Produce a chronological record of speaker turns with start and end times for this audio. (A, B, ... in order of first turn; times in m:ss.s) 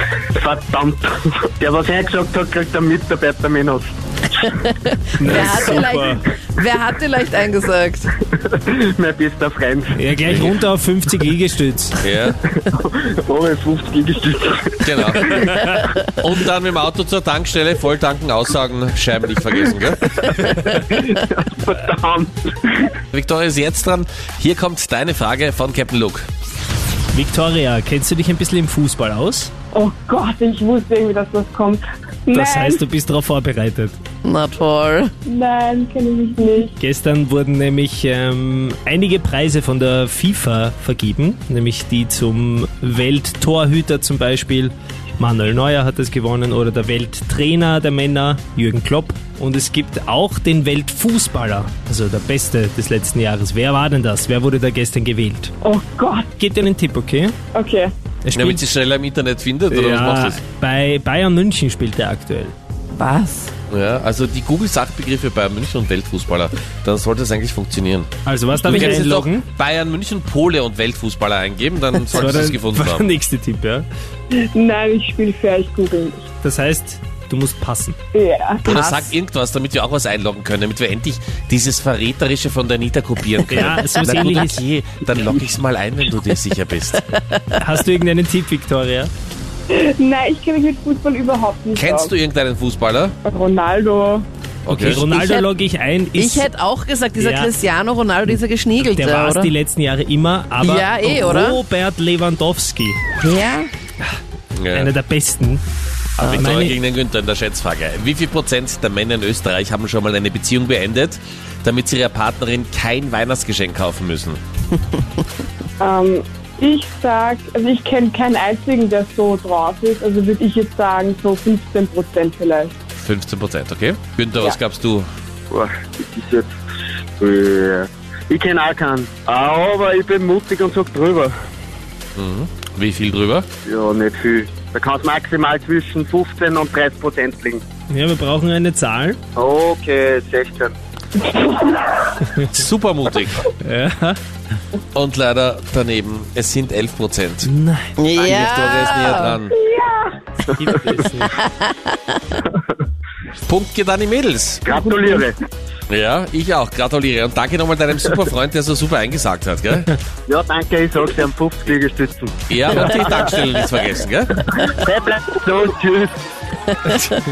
0:00.3-0:04.4 A
0:04.5-0:08.1 B
0:05.2-0:06.2 C
0:05.3-0:05.8 A
0:08.3-0:10.0 A
0:09.9-0:12.0 C
0:10.3-0:10.5 D
0:12.0-0:12.4 D
0:12.6-0:15.8 A
0:14.8-0:15.4 D
0:16.2-0:20.2 D
0:20.2-0:23.0 A
0:23.1-0:26.3 D
0:27.1-0:29.5 C
0:29.7-0:32.8 E
0:32.3-0:34.0 C
0:34.2-0:35.1 B
0:35.3-0:36.7 E
0:36.8-0:55.5 C
0:55.6-0:56.3 E
0:56.4-0:57.4 C
0:57.6-0:57.9 E
0:58.2-0:58.7 C
0:58.4-1:00.4 D
0:59.7-1:02.5 C
1:02.9-1:03.5 B
1:03.7-1:08.1 D
1:08.2-1:09.5 C
1:08.6-1:13.1 D
1:12.1-1:13.9 C
1:14.3-1:16.3 E
1:16.4-1:18.0 C
1:18.1-1:18.6 E
1:18.6-1:19.1 B
1:18.6-1:27.1 D
1:23.5-1:24.6 C
1:23.6-1:24.2 B
1:26.9-1:27.5 B
1:27.6-1:29.1 C
1:29.7-1:32.1 E
1:31.8-1:33.1 D
1:33.3-1:34.3 E
1:34.6-1:35.0 D
1:34.7-1:36.5 C
1:34.9-1:35.5 B
1:36.2-1:39.5 B
1:37.2-1:37.5 C
1:38.8-1:43.0 C
1:40.6-1:41.6 B
1:43.2-1:43.7 B
1:44.6-1:44.9 D
1:44.7-1:45.6 C
1:46.2-1:54.4 D
1:46.2-1:46.8 C
1:55.8-2:02.8 E
2:03.0-2:05.1 D
2:05.5-2:06.6 A
2:07.2-2:11.3 A
2:12.2-2:13.5 D
2:13.6-2:17.6 A
2:17.9-2:19.2 C
2:19.4-2:20.8 A
2:21.3-2:21.9 E
2:22.5-2:23.5 D
2:23.5-2:24.2 C
2:24.9-2:27.5 D
2:27.4-2:28.0 C
2:28.0-2:29.4 B
2:28.2-2:29.5 D
2:29.5-2:30.2 E
2:30.4-2:31.4 C
2:31.4-2:32.2 B
2:33.5-2:34.7 D
2:34.6-2:35.4 A
2:34.7-2:35.3 E
2:35.9-2:39.9 D
2:40.3-2:43.3 A
2:42.5-2:44.3 D
2:44.5-2:46.1 A
2:46.9-2:47.1 B